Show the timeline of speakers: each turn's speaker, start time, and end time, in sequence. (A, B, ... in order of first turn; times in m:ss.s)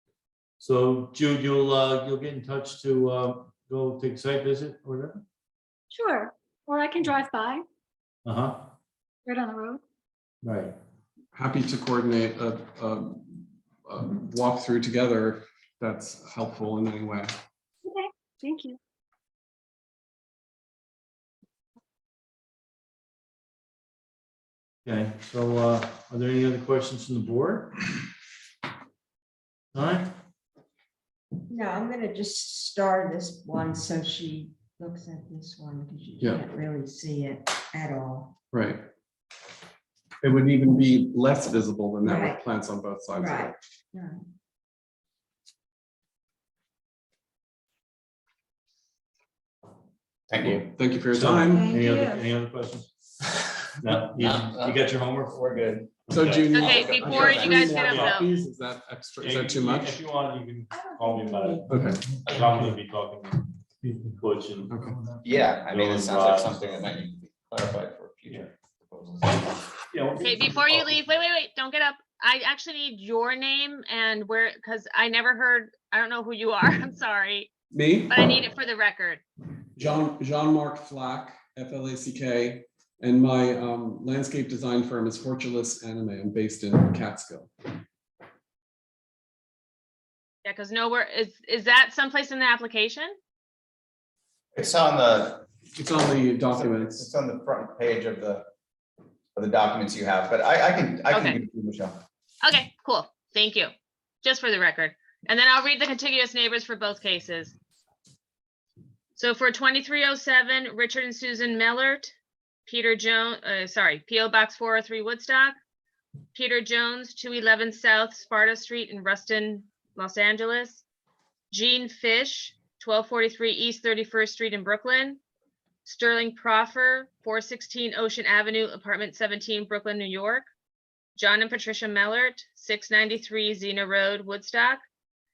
0:00.6-0:05.2 A
0:05.9-0:07.6 B
0:08.2-0:08.7 A
0:09.3-0:09.8 B
0:10.4-0:10.8 A
0:11.3-0:17.3 C
0:17.9-0:18.8 B
0:24.8-0:27.8 A
0:29.7-0:30.1 A
0:31.5-0:38.4 D
0:38.5-0:38.8 C
0:40.2-0:43.6 C
0:42.0-0:42.4 D
0:43.2-0:44.2 D
0:50.3-0:50.7 E
0:50.4-0:51.8 C
0:51.1-0:52.9 A
0:51.5-0:52.3 D
0:53.8-0:58.2 A
0:54.1-0:56.0 E
0:56.1-1:00.0 C
0:56.5-0:58.3 F
0:56.5-0:57.7 E
0:59.2-1:07.0 A
1:00.7-1:01.9 D
1:01.7-1:02.0 C
1:02.3-1:02.5 E
1:05.2-1:09.6 E
1:09.9-1:11.0 A
1:10.2-1:17.5 F
1:17.7-1:18.3 C
1:18.1-1:19.2 F
1:19.8-1:27.5 C
1:30.4-1:33.2 F
1:34.6-1:38.5 E
1:35.8-1:37.1 C
1:39.4-1:42.0 E
1:41.1-1:41.4 F
1:42.4-1:43.7 F
1:44.2-1:47.5 F
1:49.2-1:52.1 F
1:52.7-1:55.6 F
1:56.3-2:00.8 F
2:01.5-2:05.2 F
2:05.8-2:10.5 F
2:11.2-2:14.8 F